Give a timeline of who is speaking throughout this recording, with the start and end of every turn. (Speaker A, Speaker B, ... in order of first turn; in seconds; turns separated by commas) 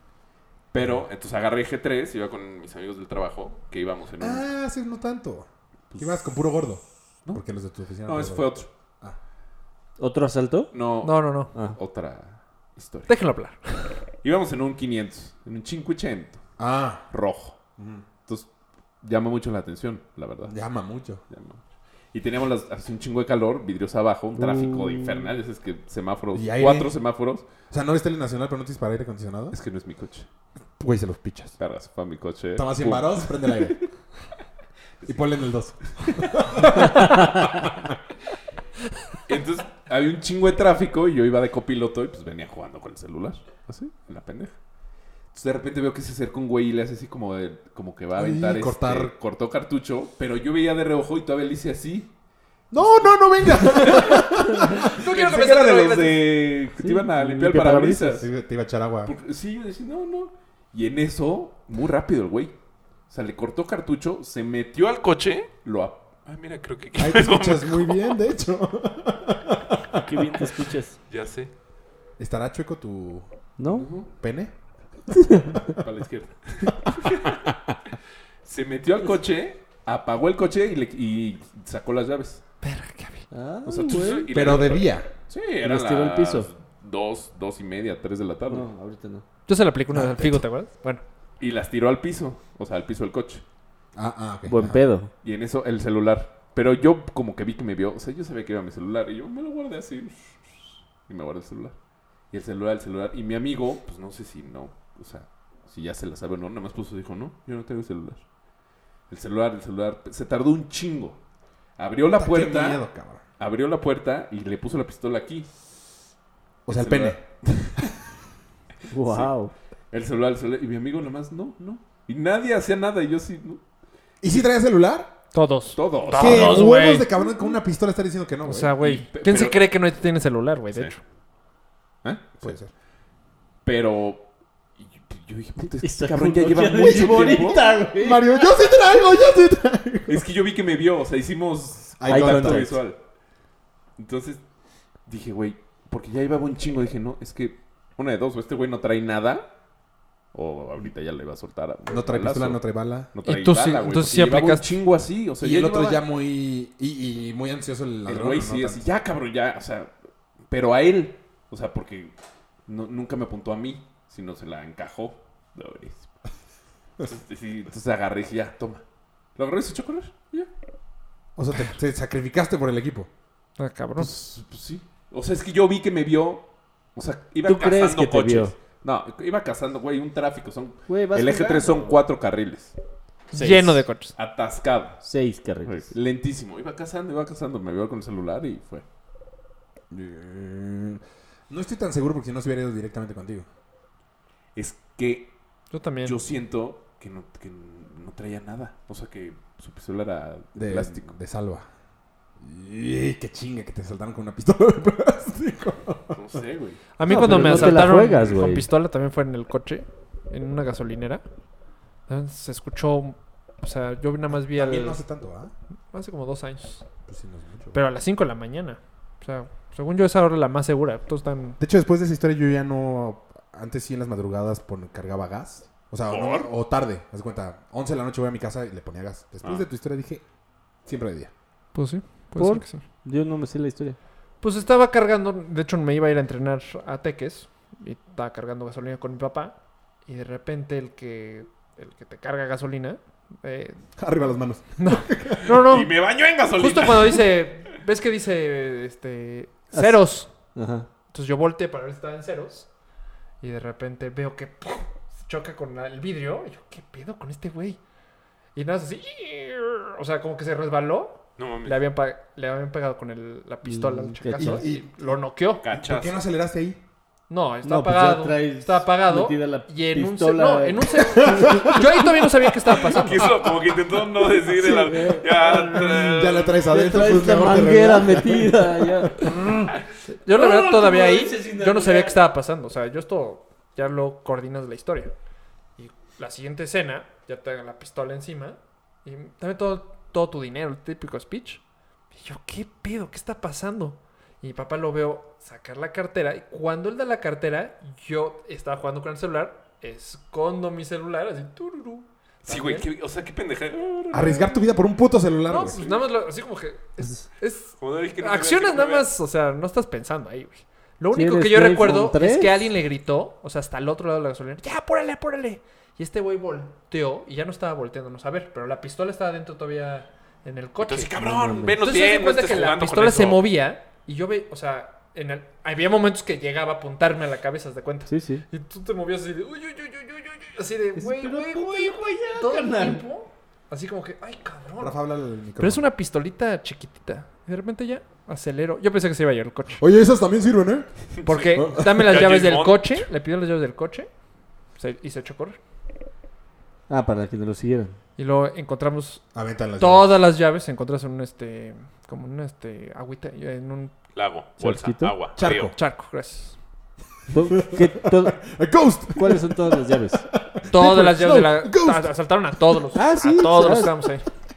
Speaker A: 0.7-4.5, Speaker B: 4.2-9.2, Speaker A: 5.9-6.4, Speaker A: 8.1-8.7, Speaker C: 10.0-10.7, Speaker A: 10.7-13.1, Speaker D: 11.0-11.5, Speaker D: 13.1-14.0, Speaker A: 14.2-16.4, Speaker B: 16.6-17.0, Speaker A: 17.1-17.6, Speaker B: 17.8-18.1, Speaker A: 19.0-20.6, Speaker B: 20.5-21.2, Speaker A: 21.3-21.6, Speaker A: 22.1-27.5, Speaker C: 24.3-25.3, Speaker B: 26.3-26.9, Speaker B: 27.7-29.6, Speaker A: 29.5-30.3, Speaker B: 30.8-31.6, Speaker A: 31.6-33.8, Speaker B: 32.5-33.8, Speaker B: 35.0-37.7, Speaker A: 36.0-37.2, Speaker A: 39.3-44.6, Speaker A: 45.3-52.1, Speaker B: 48.1-49.1, Speaker B: 52.7-56.1, Speaker A: 53.5-58.3, Speaker D: 54.8-56.2, Speaker C: 56.8-58.2, Speaker B: 58.1-59.1, Speaker A: 59.1-62.5, Speaker A: 63.1-68.1, Speaker B: 67.0-70.3, Speaker C: 70.0-71.0, Speaker A: 71.1-71.5, Speaker B: 72.2-73.3, Speaker C: 73.6-73.9, Speaker A: 73.7-74.1, Speaker B: 74.2-74.5, Speaker C: 75.2-75.6, Speaker A: 75.8-77.5, Speaker A: 78.5-82.4, Speaker D: 82.6-83.3, Speaker C: 83.3-84.5, Speaker A: 83.7-88.7, Speaker B: 84.3-85.1, Speaker C: 85.6-86.5, Speaker C: 88.5-89.2, Speaker D: 89.5-91.0, Speaker B: 89.9-90.4, Speaker A: 91.4-93.4, Speaker B: 94.0-94.8, Speaker C: 94.5-95.1, Speaker A: 95.2-101.8, Speaker A: 102.3-108.2, Speaker A: 109.1-111.2, Speaker A: 111.8-112.8, Speaker B: 112.1-113.2, Speaker A: 113.4-115.5, Speaker B: 116.7-117.2, Speaker A: 116.7-117.9, Speaker C: 118.9-119.5, Speaker A: 119.0-119.3, Speaker A: 119.9-123.6, Speaker B: 124.2-125.1, Speaker D: 125.3-127.1, Speaker A: 125.8-126.7, Speaker B: 126.2-128.8, Speaker D: 128.4-131.0, Speaker A: 128.8-129.7, Speaker A: 132.0-132.5, Speaker B: 132.4-132.7, Speaker A: 133.7-134.3, Speaker A: 134.8-137.7, Speaker C: 135.8-138.4, Speaker B: 136.8-140.3, Speaker A: 140.1-143.0, Speaker B: 142.0-142.8, Speaker C: 142.1-142.8, Speaker A: 144.0-144.4, Speaker A: 145.1-149.5, Speaker A: 150.3-152.6, Speaker B: 151.9-153.1, Speaker A: 153.1-156.0, Speaker D: 153.2-154.7, Speaker B: 155.4-158.8, Speaker A: 158.1-159.9, Speaker A: 160.5-162.1, Speaker A: 162.7-166.1, Speaker A: 167.0-168.8, Speaker A: 169.4-170.5, Speaker B: 171.4-173.1, Speaker D: 173.6-174.1, Speaker A: 174.0-182.8, Speaker C: 177.4-178.6, Speaker C: 180.9-182.0, Speaker C: 183.3-183.8, Speaker D: 183.3-184.2, Speaker A: 184.2-185.0, Speaker C: 185.0-185.9, Speaker A: 185.7-188.8, Speaker B: 189.9-193.5, Speaker A: 194.6-195.3, Speaker D: 195.7-196.2, Speaker A: 196.0-201.1, Speaker B: 200.6-201.7, Speaker B: 202.4-206.4, Speaker A: 206.2-207.8, Speaker D: 207.0-211.2, Speaker C: 207.1-208.7, Speaker B: 207.1-207.8, Speaker D: 212.1-215.0, Speaker B: 214.3-215.5, Speaker D: 215.9-216.9, Speaker B: 217.1-217.8, Speaker D: 217.7-221.6, Speaker B: 221.6-230.2, Speaker A: 226.1-226.5, Speaker B: 230.8-231.3, Speaker D: 231.7-232.8, Speaker C: 232.4-234.0, Speaker D: 234.4-239.6, Speaker D: 240.1-243.8, Speaker B: 244.0-245.6, Speaker D: 244.8-245.9, Speaker A: 245.5-247.3, Speaker D: 246.6-250.3, Speaker C: 249.7-250.9, Speaker D: 251.1-252.7, Speaker D: 253.4-257.8, Speaker D: 258.6-265.6, Speaker A: 261.4-261.8, Speaker C: 263.7-264.6, Speaker B: 264.4-265.2, Speaker A: 265.6-266.2, Speaker B: 265.7-266.8, Speaker D: 267.3-273.3, Speaker C: 267.6-272.1, Speaker B: 271.0-272.1, Speaker A: 272.8-276.7, Speaker C: 274.4-279.7, Speaker B: 275.9-279.5, Speaker D: 280.1-285.1, Speaker C: 280.3-282.2, Speaker D: 285.8-291.6, Speaker D: 292.1-302.9, Speaker A: 302.5-304.6, Speaker B: 304.1-305.8, Speaker D: 305.5-321.2, Speaker A: 305.8-306.0, Speaker A: 307.8-309.1, Speaker C: 311.1-312.6, Speaker A: 320.8-323.5, Speaker C: 321.2-321.8, Speaker D: 321.7-334.9, Speaker C: 328.1-328.4, Speaker C: 331.0-333.0, Speaker B: 334.8-335.9, Speaker D: 335.6-339.8, Speaker B: 339.8-340.9, Speaker A: 341.2-343.1, Speaker D: 341.3-344.1, Speaker B: 341.5-342.2, Speaker D: 344.8-345.6, Speaker C: 346.9-348.0, Speaker D: 348.2-349.2, Speaker B: 349.3-350.2, Speaker D: 349.8-353.9, Speaker A: 354.1-355.7, Speaker C: 354.6-355.1, Speaker B: 355.4-355.8, Speaker D: 355.7-356.6, Speaker C: 357.3-358.4, Speaker B: 357.5-362.1, Speaker C: 359.2-360.2, Speaker D: 360.7-364.3, Speaker C: 362.9-364.0